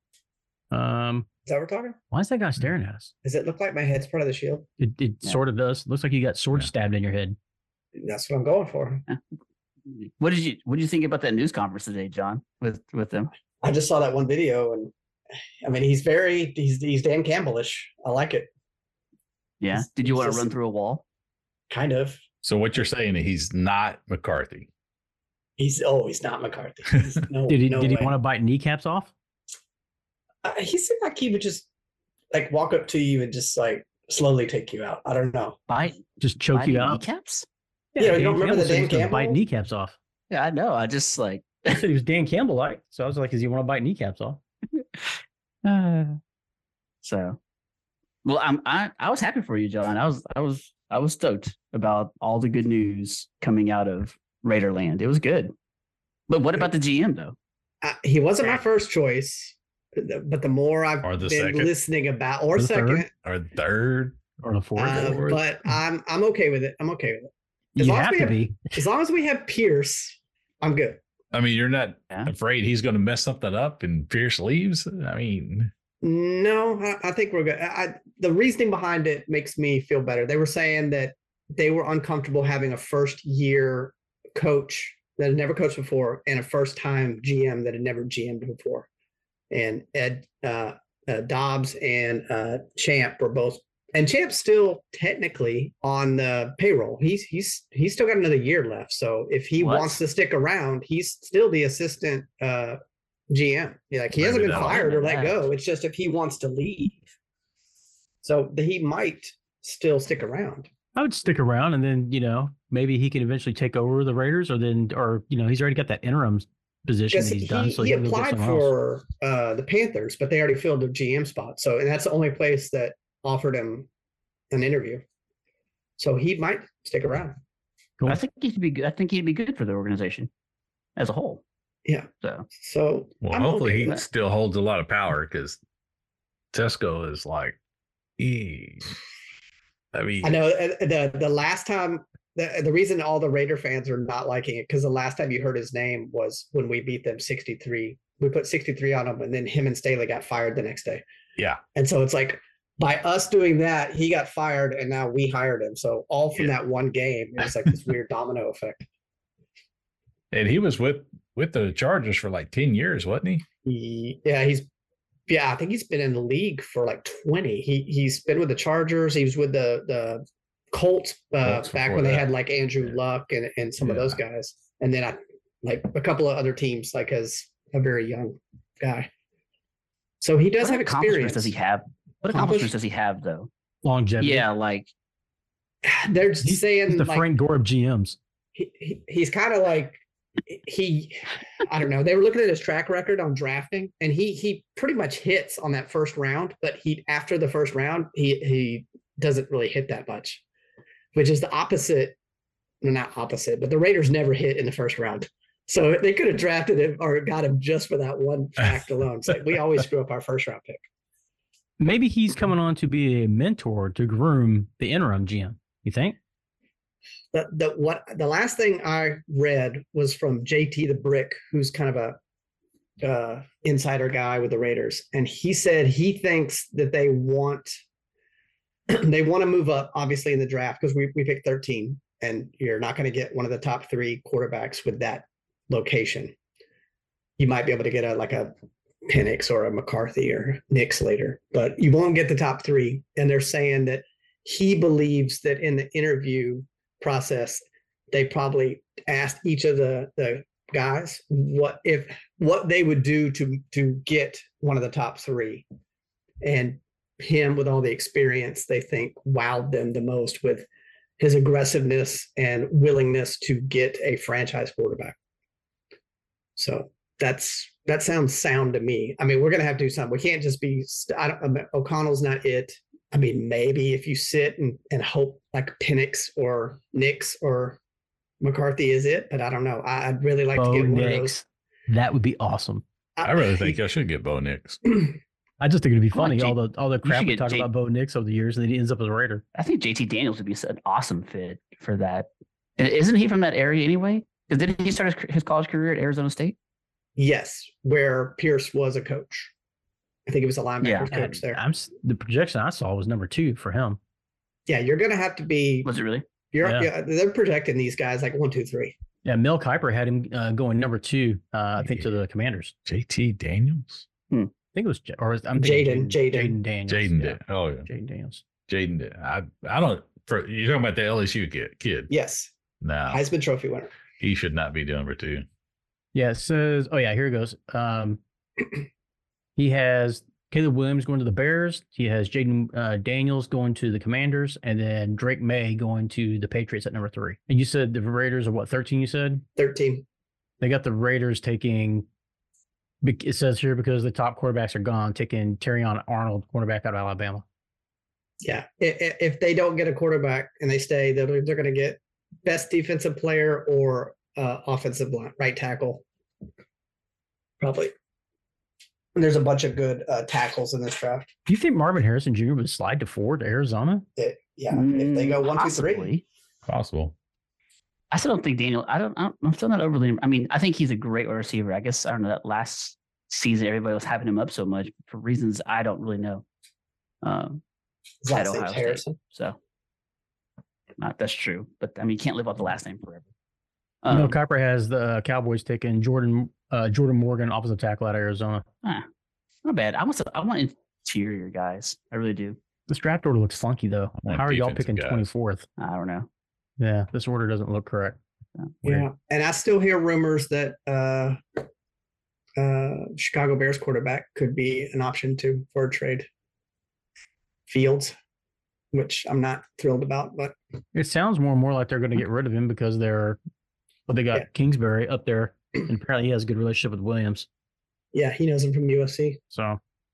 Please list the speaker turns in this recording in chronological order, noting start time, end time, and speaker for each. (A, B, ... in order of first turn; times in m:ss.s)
0:00.7-0:01.3 A
0:01.5-0:02.0 B
0:02.1-0:03.1 A
0:03.2-0:04.7 B
0:04.8-0:07.4 A
0:08.0-0:09.0 B
0:09.9-0:13.3 C
0:13.6-0:14.9 B
0:15.6-0:18.5 B
0:19.6-0:21.0 C
0:19.8-0:20.5 B
0:21.7-0:22.2 B
0:22.4-0:24.7 D
0:25.6-0:28.1 B
0:27.5-0:29.1 A
0:30.4-0:31.7 B
0:32.3-0:35.6 B
0:35.7-0:37.5 C
0:36.2-0:37.0 A
0:38.0-0:40.0 A
0:38.0-0:39.4 B
0:40.3-0:41.8 C
0:41.7-0:44.4 A
0:45.6-0:46.2 C
0:47.0-0:47.4 C
0:48.2-0:55.5 C
0:56.3-0:57.4 C
0:57.8-1:03.1 B
1:01.0-1:01.7 D
1:02.6-1:03.0 A
1:03.2-1:04.2 D
1:04.4-1:05.3 A
1:04.8-1:11.0 B
1:04.9-1:05.4 D
1:07.8-1:08.7 A
1:11.3-1:15.7 D
1:16.0-1:28.9 B
1:29.5-1:42.8 B
1:39.6-1:40.0 C
1:43.3-1:47.0 B
1:44.2-1:44.8 D
1:44.5-1:45.4 C
1:48.2-1:50.7 B
1:51.0-1:58.7 A
1:57.1-2:03.9 B
2:04.5-2:05.0 B
2:06.0-2:07.4 B
2:08.1-2:10.3 C
2:11.0-2:11.4 C
2:11.9-2:14.0 B
2:13.2-2:15.6 D
2:16.5-2:17.6 D
2:18.2-2:19.0 D
2:19.9-2:20.4 D
2:20.2-2:31.0 B
2:31.8-2:38.9 B
2:40.3-2:43.4 D
2:43.6-2:44.7 B
2:45.3-2:59.1 B
2:51.4-2:52.3 D
2:53.8-2:54.2 D
3:00.2-3:01.5 B
3:00.6-3:03.5 C
3:02.3-3:02.7 B
3:03.8-3:04.4 A
3:04.2-3:04.9 C
3:05.8-3:07.2 B
3:06.4-3:08.2 A
3:08.6-3:20.4 B
3:21.1-3:22.2 B
3:22.8-3:30.8 B
3:31.8-3:36.2 A
3:37.3-3:42.2 B
3:43.0-3:47.7 B
3:48.9-3:56.4 B
3:57.4-3:58.5 B
3:59.1-4:15.6 B
4:16.4-4:20.7 B
4:21.2-4:25.2 B
4:26.6-4:37.8 B
4:38.4-4:41.4 B
4:40.6-4:42.8 A
4:43.2-4:43.8 B
4:43.2-4:44.8 D
4:45.6-4:49.4 A
4:46.1-4:47.7 C
4:49.6-4:52.3 C
4:52.8-4:56.6 C
4:57.2-4:59.5 B
5:00.3-5:01.6 B
5:00.8-5:01.3 C
5:01.2-5:04.0 A
5:04.7-5:05.9 B
5:05.8-5:06.2 C
5:06.5-5:09.0 B
5:06.6-5:06.9 A
5:09.2-5:12.7 A
5:12.9-5:14.0 D
5:14.7-5:18.4 A
5:15.6-5:16.6 B
5:16.9-5:17.9 D
5:18.7-5:22.1 D
5:22.1-5:22.5 B
5:22.8-5:23.2 D
5:23.1-5:23.9 B
5:24.2-5:25.5 D
5:26.1-5:28.2 A
5:29.6-5:39.4 A
5:39.6-5:40.0 B
5:40.6-5:42.1 A
5:43.0-5:47.4 A
5:48.4-5:56.0 B
5:57.6-5:57.9 B
5:59.2-6:01.3 B
6:01.5-6:04.0 A
6:04.2-6:06.1 B
6:04.7-6:06.2 C
6:06.7-6:07.1 D
6:08.1-6:16.4 C
6:17.2-6:17.6 C
6:18.2-6:19.2 B
6:18.3-6:19.6 C
6:21.0-6:23.2 C
6:24.0-6:24.4 C
6:24.1-6:28.6 A
6:29.6-6:32.6 C
6:32.9-6:35.6 A
6:34.2-6:35.3 D
6:35.8-6:36.3 C
6:36.8-6:38.2 A
6:38.8-6:41.4 B
6:42.6-6:46.3 B
6:47.7-6:48.1 B
6:48.9-6:50.6 B
6:51.0-6:53.4 A
6:54.1-6:57.5 A
6:58.1-6:59.4 B
6:59.5-6:59.8 A